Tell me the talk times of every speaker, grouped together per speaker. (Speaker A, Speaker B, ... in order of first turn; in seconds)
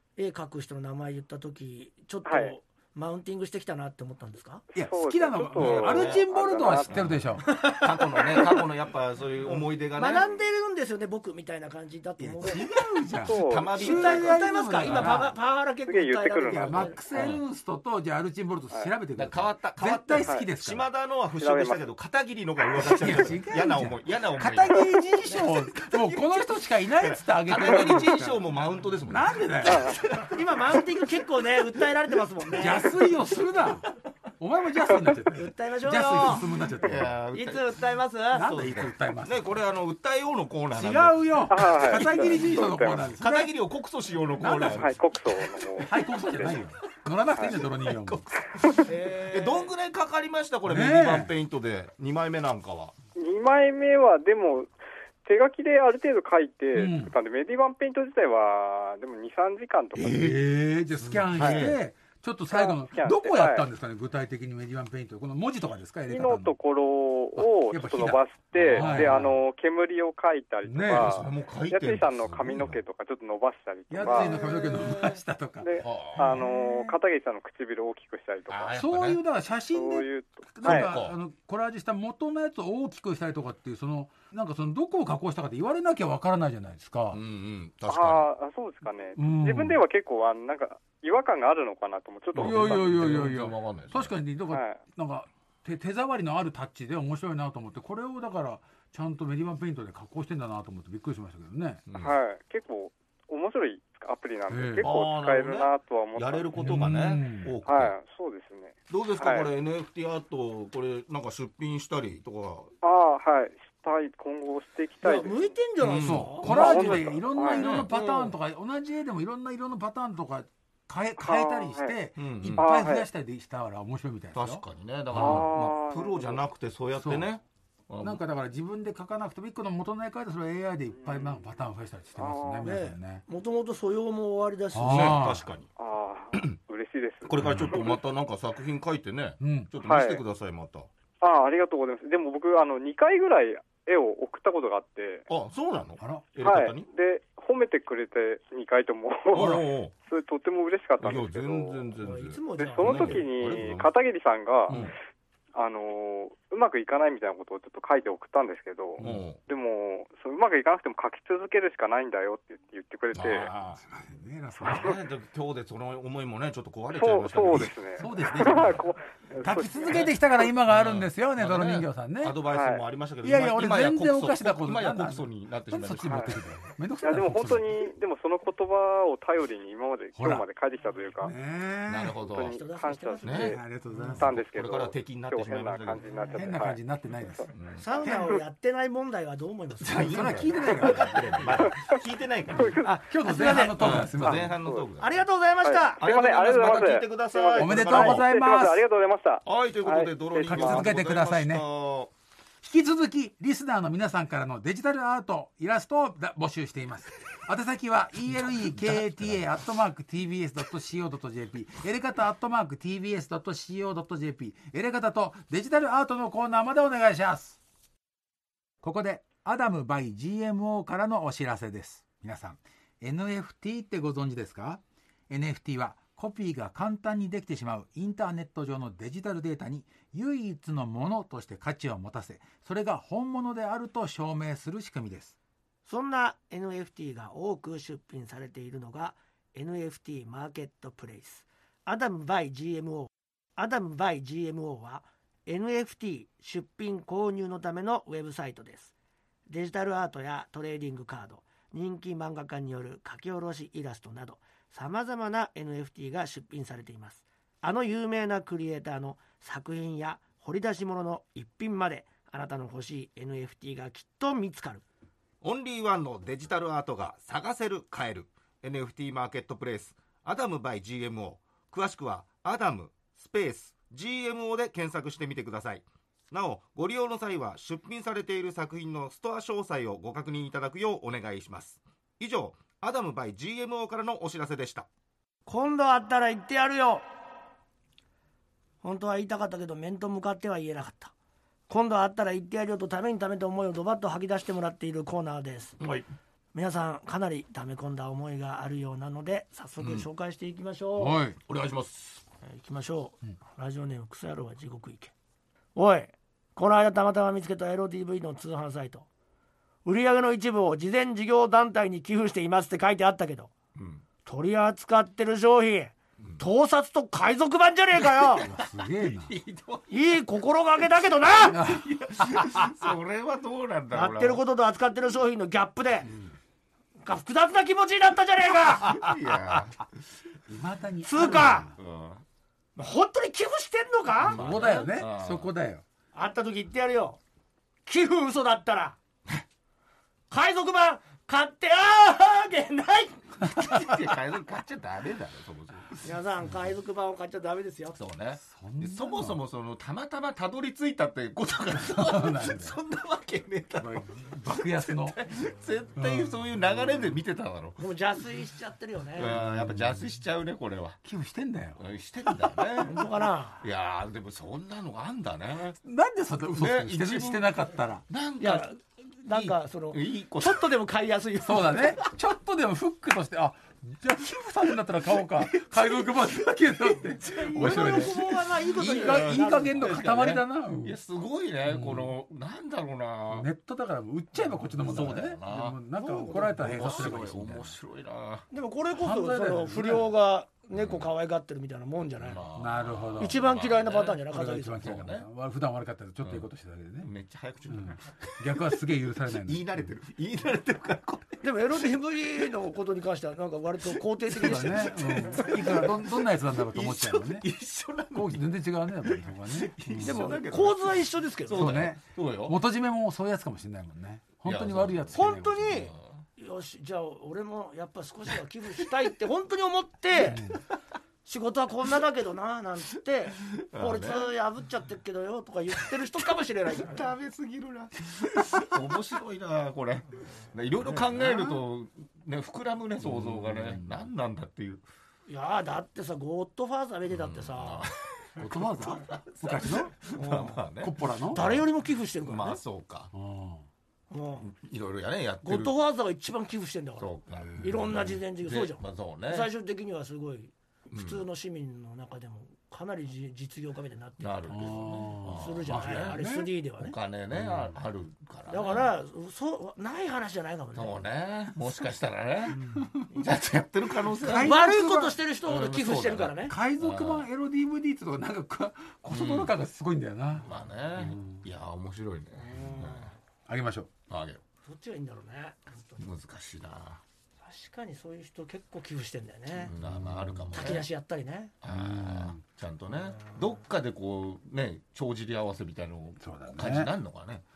Speaker A: 0.2-4.6, 7.5-8.6, 9.9-12.7, 13.7-17.0, 30.3-32.9, 35.3-36.4, 37.3-38.5, 48.8-49.7, 74.0-75.2, 115.0-116.8, 117.9-118.3, 132.6-135.2, 152.0-153.3, 182.5-183.6, 187.8-190.4, 192.8-194.1, 195.0-196.0, 235.8-248.9, 249.5-264.8, 285.4-287.0, 288.8-291.1, 291.7-295.8, 296.5-301.2, 302.4-305.1, 305.7-309.1, 309.8-313.5, 314.2-318.4, 319.9-321.6, 323.9-326.1, 327.0-329.1, 331.0-331.7, 332.8-334.4, 336.1-337.2, 337.9-339.0, 340.3-343.4, 346.0-348.0, 357.8-359.4, 362.8-363.6, 368.4-372.0, 377.2-380.1, 386.0-387.2, 388.5-392.4, 393.2-394.9, 401.4-405.8, 410.0-411.8, 415.1-420.4, 421.2-427.1, 435.3-437.9, 440.1-440.6, 441.3-442.6, 444.1-444.5, 445.4-456.9, 458.5-461.0, 464.4-466.6, 472.3-473.2, 474.6-476.1, 477.4-479.7, 480.5-481.5
Speaker B: 2.2-2.5, 4.7-7.1, 13.2-14.0, 15.8-17.0, 21.4-21.8, 29.7-30.0, 41.5-43.1, 44.5-46.5, 48.5-48.9, 53.1-54.7, 55.2-60.3, 62.5-63.6, 66.1-74.4, 75.6-78.8, 79.7-80.9, 87.9-93.1, 94.5-94.8, 102.0-107.0, 107.6-109.5, 112.8-115.5, 116.4-117.9, 121.2-121.9, 122.6-123.0, 125.1-126.4, 130.9-131.6, 132.2-132.7, 135.8-138.0, 139.8-140.2, 141.2-145.2, 146.4-151.8, 152.6-154.8, 155.5-163.5, 166.9-170.1, 172.5-172.8, 176.1-176.3, 177.0-181.3, 182.2-183.6, 184.2-186.8, 191.6-192.0, 192.5-192.9, 194.2-194.8, 195.6-201.0
Speaker C: 4.7-7.5, 12.2-15.3, 16.5-20.9, 22.8-28.4, 29.1-30.0, 32.6-37.2, 38.3-39.5, 40.7-43.5, 44.4-44.9, 45.8-48.3, 50.7-51.3, 56.7-57.1, 60.0-66.5, 67.4-69.4, 70.6-71.3, 73.9-76.8, 78.8-87.2, 89.2-89.8, 92.4-101.8, 104.5-104.9, 106.6-107.5, 115.9-125.5, 126.9-127.3, 128.0-133.2, 134.7-135.5, 137.4-137.7, 139.4-139.7, 146.0-146.3, 149.3-149.6, 159.0-159.2, 163.8-164.8, 168.0-168.8, 169.4-172.4, 173.2-177.9, 180.2-180.5, 181.2-182.2, 183.4-184.3, 186.3-187.5, 189.9-191.7, 192.9-194.5, 197.6-198.8, 200.5-201.6, 202.6-217.6, 218.8-235.4, 300.9-301.4, 318.4-319.3, 321.5-322.6, 330.5-331.7, 334.2-335.8, 348.4-349.4, 351.8-352.8, 353.8-355.2, 355.9-356.5, 359.5-360.0, 361.0-361.8, 365.8-368.0, 371.4-381.0, 381.6-382.1, 383.3-387.8, 388.9-390.1, 392.6-393.4, 394.3-397.1, 397.7-399.7, 404.3-407.4, 408.1-410.4, 411.5-415.9, 420.3-420.6, 430.9-431.6, 433.0-433.9, 438.4-440.0, 440.8-441.4, 443.1-443.6, 447.3-447.7, 454.5-456.5, 457.3-457.7, 464.2-465.2, 466.5-471.4, 473.5-473.9, 479.8-480.8, 481.7-482.4, 486.2-486.9
Speaker D: 5.6-10.3, 13.3-15.2, 17.1-17.4, 19.1-25.0, 25.7-30.8, 36.8-37.7, 38.4-45.9, 47.4-52.9, 59.9-60.4, 61.0-61.8, 68.5-69.3, 71.0-72.8, 75.8-76.5, 78.5-79.2, 80.6-81.2, 87.1-88.3, 92.3-94.1, 101.9-102.2, 104.8-107.9, 108.9-112.7, 115.8-117.9, 122.2-122.7, 124.3-128.2, 134.9-135.7, 137.2-140.9, 145.3-146.9, 149.3-149.9, 151.0-153.9, 154.7-154.9, 159.0-159.4, 163.1-163.8, 164.6-167.8, 170.7-176.4, 181.9-182.6, 183.2-186.5, 187.5-187.8, 189.8-192.8, 193.8-195.2, 196.0-198.3, 199.4-202.1, 208.3-209.4, 265.4-284.9, 295.8-296.1, 299.8-300.1, 301.4-302.2, 313.7-314.0, 318.0-320.0, 321.6-324.4, 328.6-329.8, 331.2-332.2, 334.2-335.5, 343.4-346.0, 347.9-357.8, 359.1-361.0, 361.8-363.1, 363.6-365.8, 366.6-367.5, 368.1-368.7, 369.3-370.7, 377.2-383.5, 384.8-385.8, 386.3-388.5, 390.7-391.1, 392.2-395.3, 397.0-398.7, 399.3-401.9, 404.3-408.5, 409.0-412.6, 414.4-415.1, 415.7-416.2, 423.4-424.3, 426.8-434.8, 437.1-441.7, 442.2-443.1, 444.4-445.7, 447.0-449.5, 450.9-451.2, 454.2-456.2, 456.8-458.9, 460.7-464.6, 465.4-467.3, 469.1-469.5, 470.4-473.1, 474.1-474.4, 476.0-477.0, 479.5-480.9, 481.6-487.4